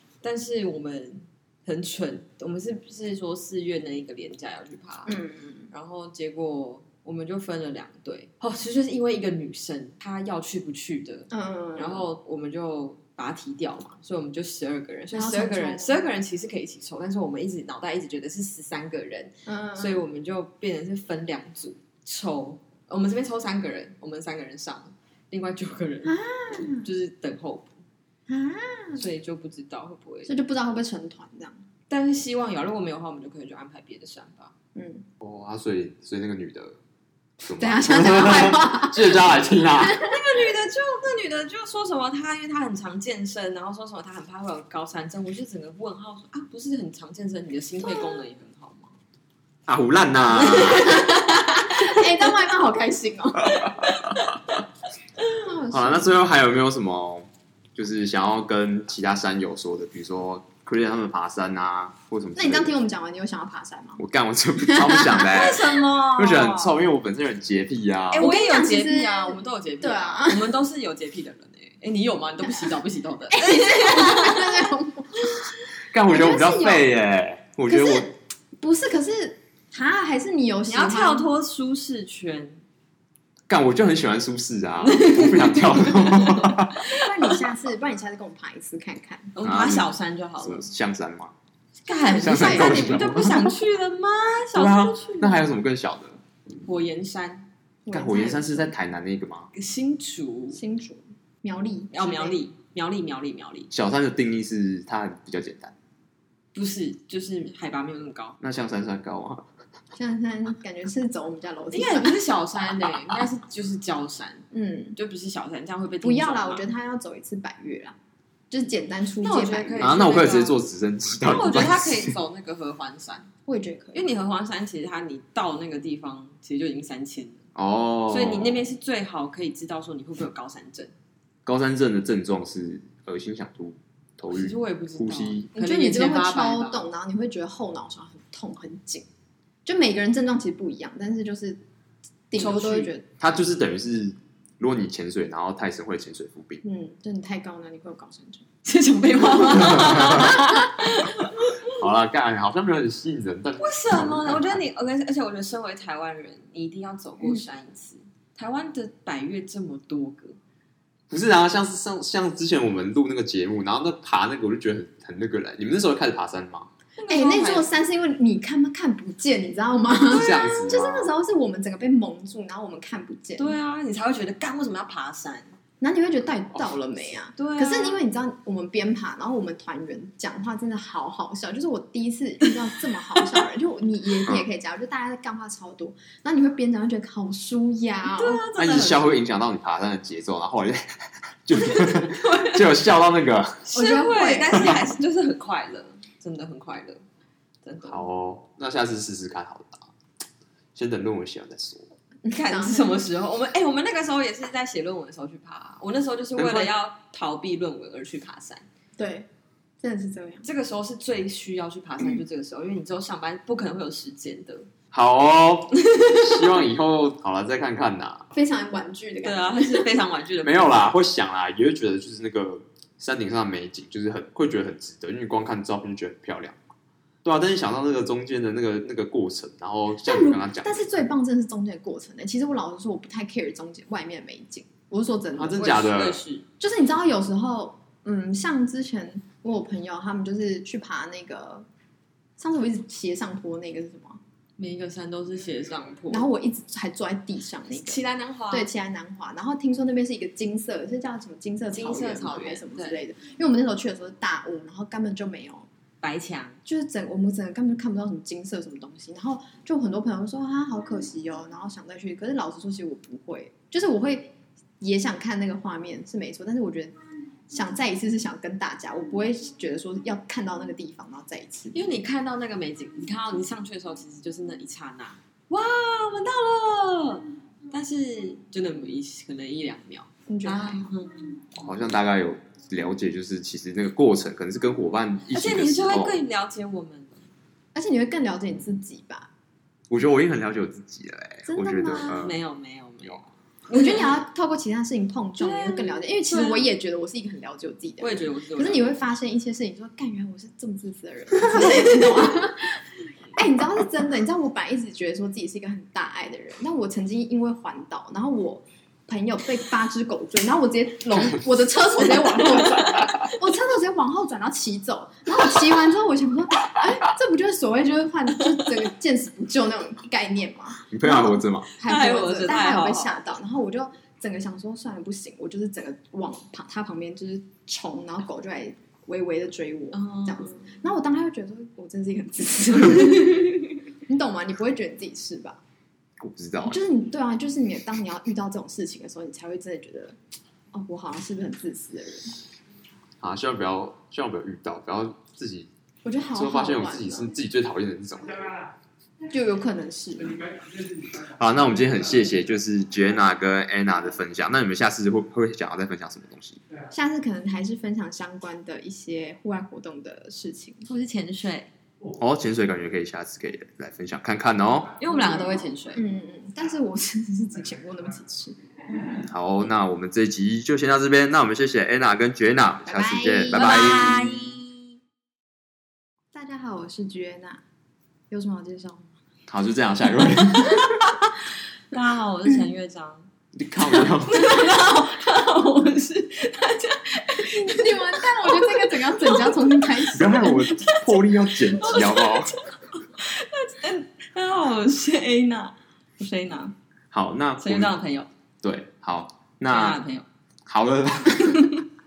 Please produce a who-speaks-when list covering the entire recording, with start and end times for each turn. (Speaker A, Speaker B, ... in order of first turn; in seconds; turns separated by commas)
Speaker A: 0.2-5.2, Speaker B: 5.1-5.7, Speaker A: 5.7-27.8, Speaker B: 11.3-12.1, Speaker B: 15.1-16.0, Speaker B: 19.5-20.0, Speaker B: 26.0-26.9, Speaker B: 28.3-29.1, Speaker A: 29.0-30.3, Speaker B: 30.3-31.6, Speaker A: 31.9-34.5, Speaker B: 34.8-35.1, Speaker C: 35.2-36.8, Speaker C: 37.4-40.1, Speaker B: 37.5-40.2, Speaker A: 40.0-49.0, Speaker C: 49.7-51.2, Speaker B: 50.5-53.8, Speaker A: 50.8-51.9, Speaker C: 53.4-54.4, Speaker A: 53.9-54.5, Speaker B: 55.4-56.3, Speaker C: 55.7-62.7, Speaker B: 62.4-64.0, Speaker C: 64.0-68.3, Speaker B: 64.6-65.3, Speaker A: 65.3-66.8, Speaker A: 68.1-74.7, Speaker B: 68.2-70.5, Speaker B: 73.3-75.4, Speaker C: 75.9-78.1, Speaker B: 76.1-76.9, Speaker B: 77.7-81.3, Speaker A: 80.7-82.6, Speaker C: 83.5-86.8, Speaker A: 84.8-87.4, Speaker B: 86.9-89.3, Speaker A: 89.3-90.7, Speaker C: 89.4-91.3, Speaker A: 91.8-95.4, Speaker B: 92.1-93.4, Speaker C: 92.2-93.5, Speaker C: 94.5-96.2, Speaker A: 96.6-97.5, Speaker B: 97.9-98.7, Speaker C: 97.9-99.5, Speaker A: 99.5-100.6, Speaker B: 100.5-102.4, Speaker A: 101.9-103.7, Speaker C: 103.7-105.8, Speaker A: 106.5-108.4, Speaker C: 108.4-109.5, Speaker B: 110.0-112.2, Speaker A: 111.7-116.7, Speaker B: 114.5-115.0, Speaker B: 116.0-118.0, Speaker B: 118.5-119.9, Speaker A: 119.2-120.6, Speaker C: 119.8-122.1, Speaker A: 121.2-123.3, Speaker B: 123.5-124.1, Speaker A: 123.9-127.5, Speaker C: 127.5-128.7, Speaker A: 128.1-130.9, Speaker C: 131.4-135.5, Speaker A: 134.3-136.9, Speaker B: 135.6-139.1, Speaker B: 139.7-141.6, Speaker B: 142.3-143.1, Speaker A: 142.3-142.9, Speaker C: 143.2-146.6, Speaker B: 146.6-148.5, Speaker A: 148.6-151.6, Speaker C: 151.6-154.6, Speaker A: 153.6-160.4, Speaker C: 161.1-166.7, Speaker A: 167.0-167.7, Speaker B: 167.1-173.6, Speaker C: 170.1-171.1, Speaker A: 173.4-175.5, Speaker B: 175.8-188.4, Speaker A: 177.4-178.1, Speaker A: 188.0-189.1, Speaker C: 188.6-193.7, Speaker A: 191.6-192.7, Speaker A: 193.7-197.0, Speaker B: 193.7-194.7, Speaker A: 197.7-198.0, Speaker C: 197.9-199.9, Speaker C: 200.8-201.9, Speaker B: 202.2-203.0, Speaker A: 202.3-208.7, Speaker C: 206.4-206.7, Speaker B: 209.0-209.3, Speaker B: 209.8-210.5, Speaker A: 210.4-214.7, Speaker C: 214.9-218.3, Speaker A: 215.8-216.4, Speaker B: 218.3-219.9, Speaker A: 219.2-220.9, Speaker C: 220.4-226.6, Speaker C: 227.2-231.0, Speaker B: 230.0-235.8, Speaker C: 235.3-236.2, Speaker A: 235.6-236.4, Speaker B: 236.6-241.7, Speaker B: 242.4-244.2, Speaker A: 244.6-246.3, Speaker B: 246.1-255.7, Speaker A: 247.7-248.7, Speaker A: 251.7-253.0, Speaker A: 256.0-256.6, Speaker B: 256.7-266.9, Speaker B: 267.5-271.9, Speaker A: 271.7-281.4, Speaker B: 280.3-280.9, Speaker C: 281.5-286.2, Speaker A: 285.3-287.3, Speaker B: 287.8-289.3, Speaker C: 289.9-292.4, Speaker B: 291.5-292.3, Speaker A: 291.8-294.2, Speaker B: 293.7-335.6, Speaker A: 295.4-296.7, Speaker A: 298.0-299.0, Speaker C: 320.9-321.7, Speaker A: 321.8-323.2, Speaker A: 329.9-330.7, Speaker C: 336.2-336.8, Speaker B: 336.6-340.2, Speaker B: 340.7-342.4, Speaker C: 343.2-345.7, Speaker B: 346.1-347.4, Speaker C: 346.3-348.5, Speaker B: 349.3-350.6, Speaker C: 351.1-356.6, Speaker B: 356.9-360.9, Speaker A: 360.9-361.7, Speaker C: 362.1-364.9, Speaker A: 365.0-366.0, Speaker B: 365.1-369.0, Speaker C: 369.3-374.3, Speaker B: 372.9-374.3, Speaker A: 373.5-374.8, Speaker B: 376.3-377.6, Speaker B: 378.3-379.1, Speaker C: 379.5-381.1, Speaker A: 381.9-383.3, Speaker C: 383.5-384.5, Speaker A: 384.3-389.9, Speaker B: 387.5-390.7, Speaker C: 390.1-392.5, Speaker A: 391.8-396.8, Speaker C: 397.1-397.9, Speaker A: 397.6-398.3, Speaker C: 398.6-400.0, Speaker A: 399.7-400.3, Speaker C: 400.7-401.6, Speaker A: 401.4-401.8